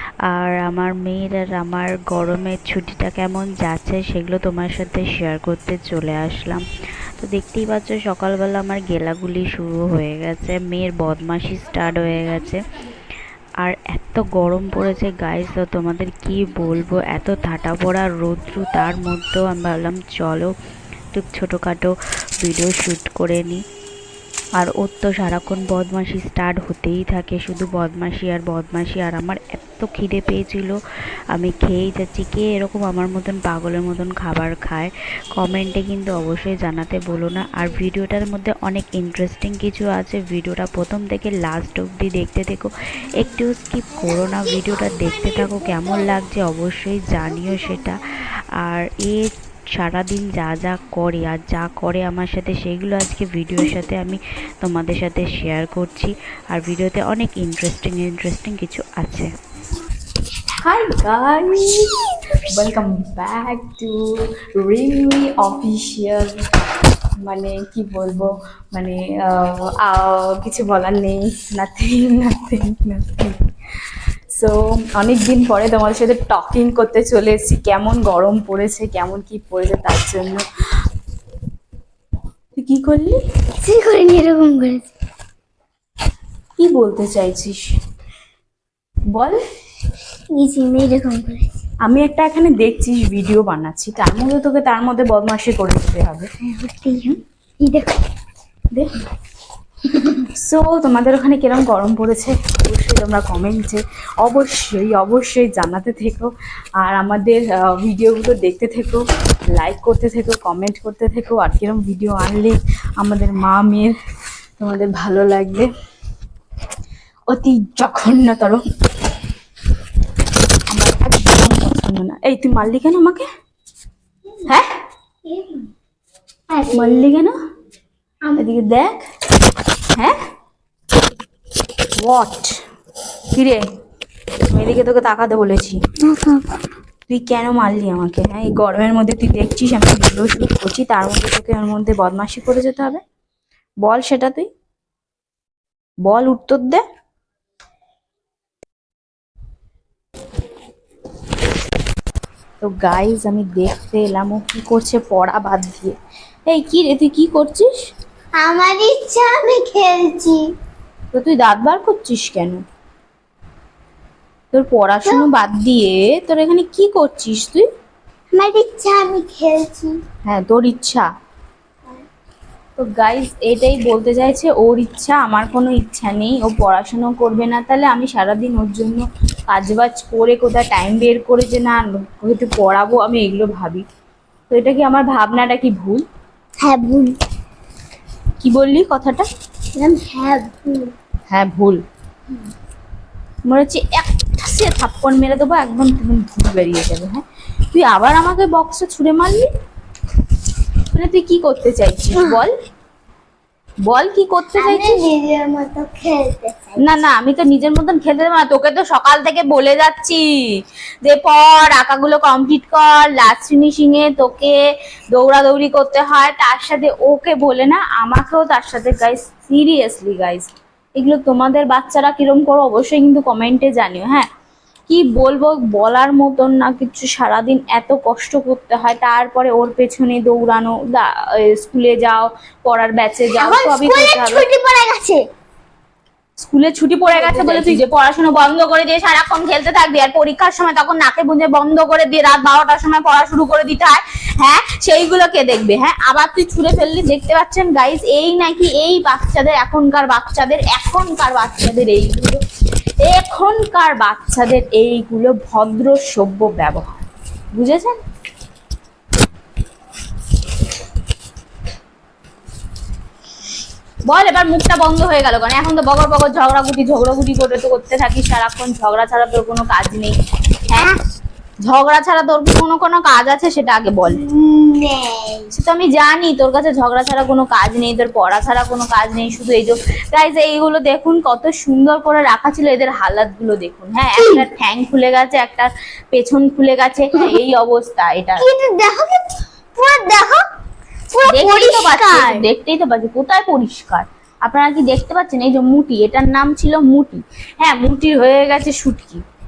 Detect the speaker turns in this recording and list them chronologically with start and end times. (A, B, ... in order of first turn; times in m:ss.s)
0:00.3-0:06.6 A
0:07.2-0:12.6 A
0:13.6-0:20.5 A
0:21.1-0:21.9 A
0:22.4-0:23.6 A
0:24.6-0:30.8 A
0:31.3-0:48.0 A
0:48.6-0:59.3 A
1:00.6-1:01.9 B
1:02.5-1:04.0 B
1:04.5-1:06.4 B
1:07.2-1:13.4 B
1:14.3-1:20.4 B
1:22.6-1:23.2 B
1:23.6-1:24.8 C
1:26.6-1:27.7 B
1:30.3-1:31.5 C
1:31.8-1:36.2 B
1:36.5-1:38.0 C
1:40.2-1:53.9 B
1:54.6-1:55.7 B
1:57.3-1:58.6 B
2:00.7-2:03.2 B
2:06.5-2:07.0 C
2:06.7-2:07.3 B
2:08.4-2:09.0 B
2:12.0-2:12.6 B
2:13.3-2:13.6 B
2:14.5-2:15.8 B
2:16.1-2:16.4 C
2:17.1-2:23.0 B
2:23.8-2:24.5 B
2:26.0-2:26.8 B
2:32.6-2:35.9 B
2:36.5-2:37.7 B
2:38.4-2:40.4 C
2:41.1-2:42.6 B
2:44.5-2:47.6 B
2:48.3-2:49.9 C
2:50.2-2:51.0 B
2:52.8-3:03.8 B
3:04.5-3:06.0 B
3:06.6-3:07.1 C
3:08.4-3:09.2 B
3:09.8-3:10.9 C
3:11.3-3:11.8 B
3:13.5-3:19.5 B
3:20.9-3:22.5 B
3:23.8-3:25.0 B
3:24.6-3:27.0 C
3:26.8-3:30.5 B
3:31.0-3:34.6 B
3:35.1-3:44.3 B
3:44.9-3:54.4 B
3:53.4-3:55.2 C
3:56.4-4:12.4 B
3:57.4-3:57.7 C
4:13.0-4:17.0 B
4:17.6-4:18.0 B
4:24.1-4:30.2 B
4:31.6-4:34.2 B
4:34.2-4:35.5 C
4:35.5-4:48.4 B
4:48.4-4:50.4 C
4:51.1-4:52.4 C
4:51.3-4:59.2 B